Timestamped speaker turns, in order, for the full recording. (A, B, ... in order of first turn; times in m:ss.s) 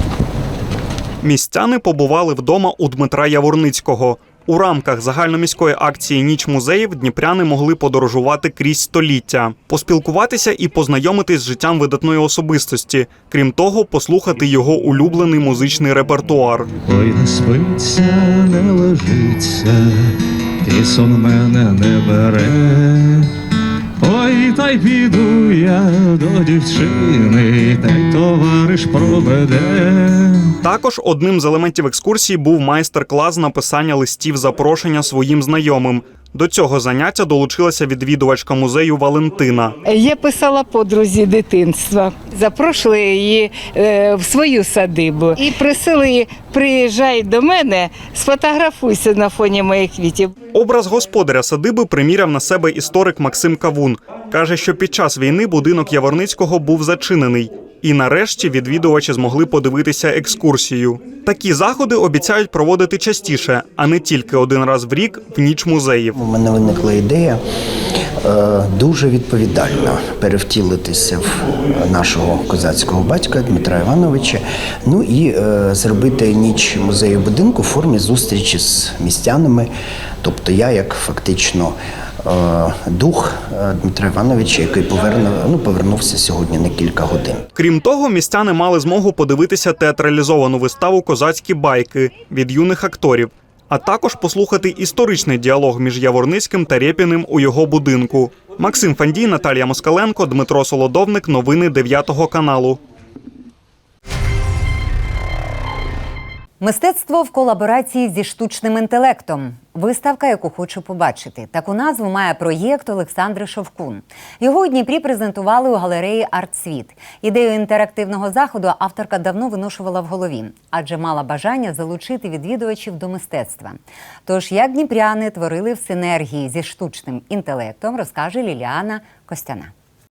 0:01.2-0:16.7 A
0:16.8-0:23.3 B
0:24.0-0:30.5 B
0:30.6-0:39.7 A
0:39.8-0:50.3 C
0:50.5-1:06.1 A
1:06.1-1:07.4 D
1:08.2-1:19.7 D
1:20.2-1:27.5 D
1:27.5-1:42.8 A
1:46.6-2:09.7 E